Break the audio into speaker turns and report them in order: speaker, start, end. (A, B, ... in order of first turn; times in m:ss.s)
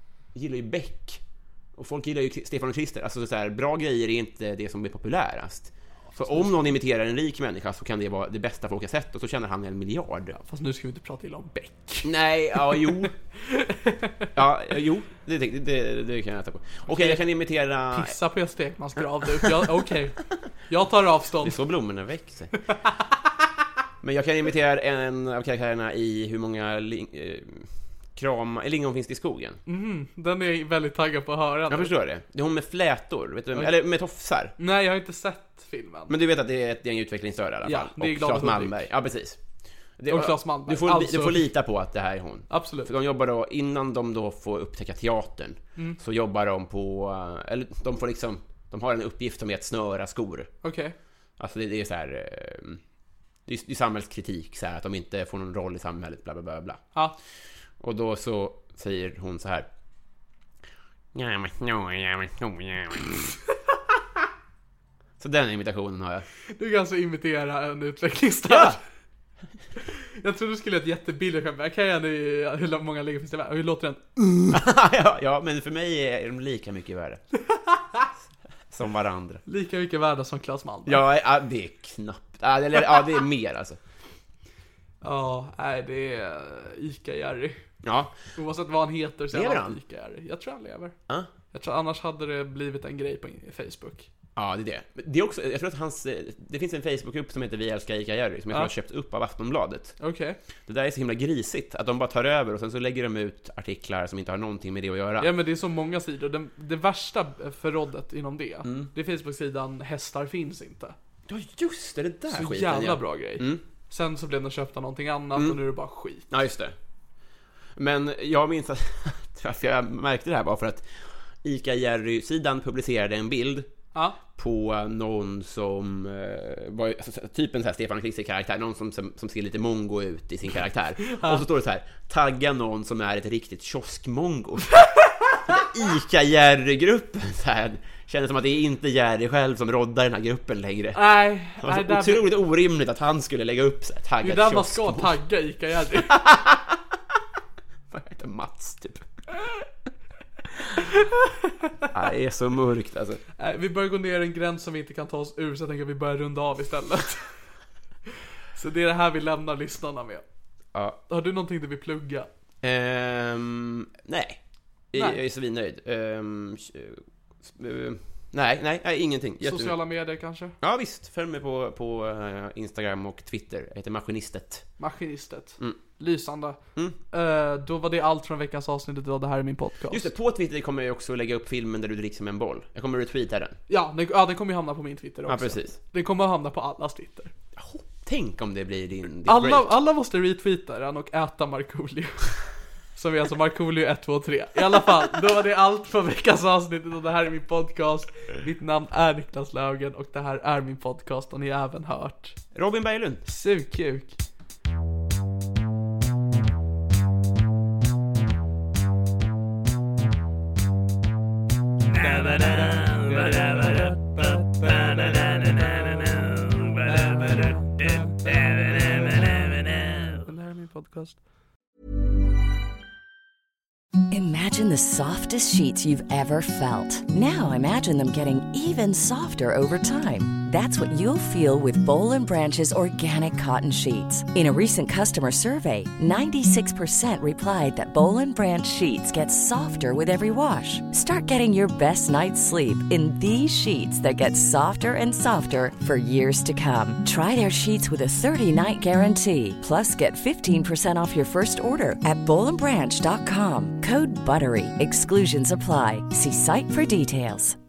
0:00.3-0:01.2 A
0:01.8-0:10.4 A
0:06.1-0:06.5 B
0:10.4-0:14.3 B
0:12.0-0:13.1 A
0:14.4-0:18.1 A
0:16.9-0:17.2 B
0:17.9-0:21.6 B
0:21.4-0:22.5 A
0:24.0-0:29.6 A
0:29.7-0:31.9 B
0:31.7-0:34.5 A
0:34.6-0:36.1 B
0:36.1-0:39.4 A
0:37.6-0:38.9 B
0:40.0-0:50.5 A
0:40.1-0:41.5 B
0:42.5-0:42.9 B
0:50.6-0:51.0 B
0:51.4-0:52.8 A
0:53.5-0:56.8 A
0:57.8-0:59.7 A
1:01.1-1:03.3 A
1:05.2-1:06.3 A
1:06.5-1:08.8 B
1:08.5-1:08.8 A
1:10.2-1:14.0 B
1:14.5-1:17.2 A
1:17.5-1:18.1 B
1:18.7-1:19.4 A
1:19.5-1:21.0 B
1:20.9-1:23.8 A
1:25.0-1:27.6 B
1:27.8-1:28.2 A
1:28.4-1:31.0 B
1:29.3-1:29.8 A
1:31.5-1:34.1 B
1:34.4-1:40.0 A
1:40.0-1:40.4 B
1:40.7-1:45.3 A
1:45.2-1:51.0 B
1:51.3-1:53.6 A
1:52.3-1:56.3 B
1:56.3-1:56.8 A
1:57.8-2:03.7 A
2:03.9-2:04.2 B
2:04.4-2:14.8 A
2:11.1-2:11.4 B
2:15.5-2:21.0 A
2:21.0-2:22.2 B
2:21.6-2:25.1 A
2:24.2-2:26.2 B
2:26.0-2:26.8 A
2:27.9-2:29.0 A
2:31.9-2:33.2 A
2:33.4-2:37.4 B
2:38.5-2:40.2 B
2:41.1-2:42.3 B
2:42.6-2:44.4 A
2:44.9-2:49.8 A
2:45.0-2:45.2 B
2:49.4-2:50.6 B
2:50.6-2:54.6 A
2:54.8-2:56.6 B
2:57.1-3:00.1 B
2:59.9-3:03.6 A
3:03.7-3:07.3 B
3:05.3-3:05.8 A
3:07.6-3:09.7 A
3:09.3-3:12.4 B
3:13.0-3:22.4 B
3:22.6-3:23.2 A
3:23.3-3:24.2 B
3:31.9-3:41.2 B
3:44.1-4:17.6 C